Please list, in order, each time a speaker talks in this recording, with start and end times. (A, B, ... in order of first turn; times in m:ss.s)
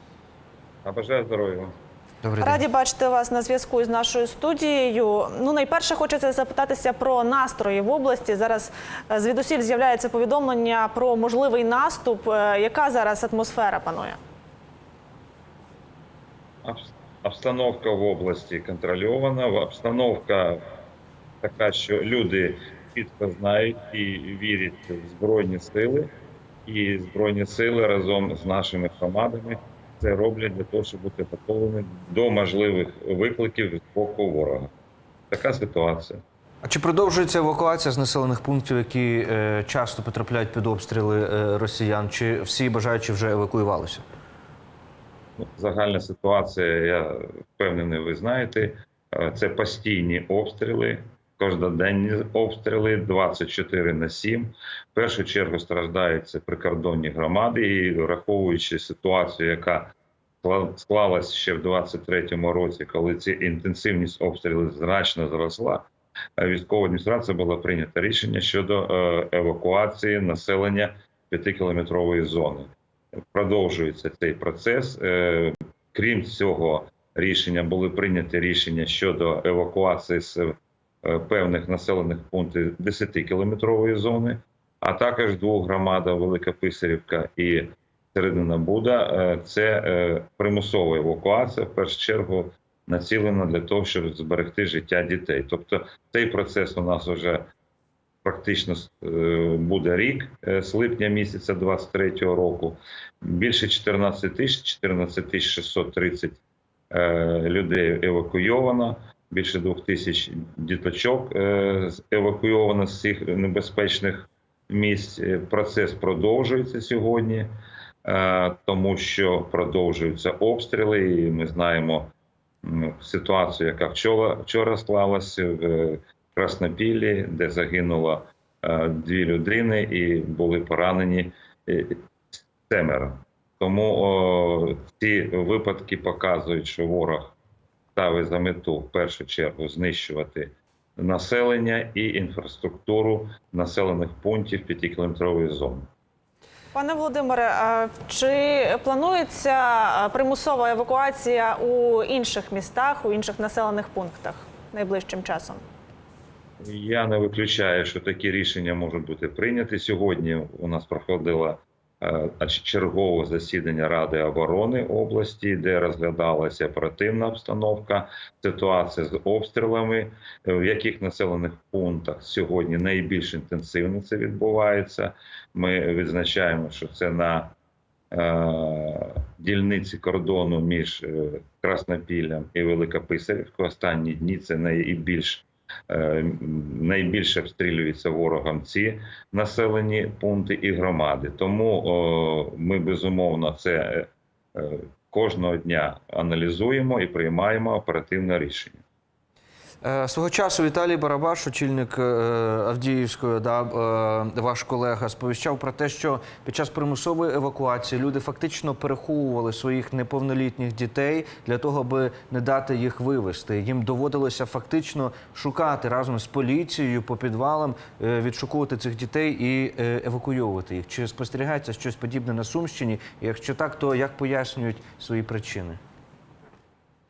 0:00.8-0:01.7 A
0:02.2-0:02.6 B
0:02.4-0:14.2 C
0:16.6-0:20.6 A
0:21.4-0:26.1 A
0:26.6-0:34.7 A
0:35.3-0:36.2 A
0:36.6-0:44.0 B
0:45.4-1:12.7 A
1:13.3-1:37.5 A
1:38.2-1:57.5 A
1:58.0-2:17.3 A
2:17.9-2:25.9 A
2:26.7-2:35.6 C
2:36.6-2:57.5 A
2:58.1-3:18.8 A
3:19.8-3:45.8 B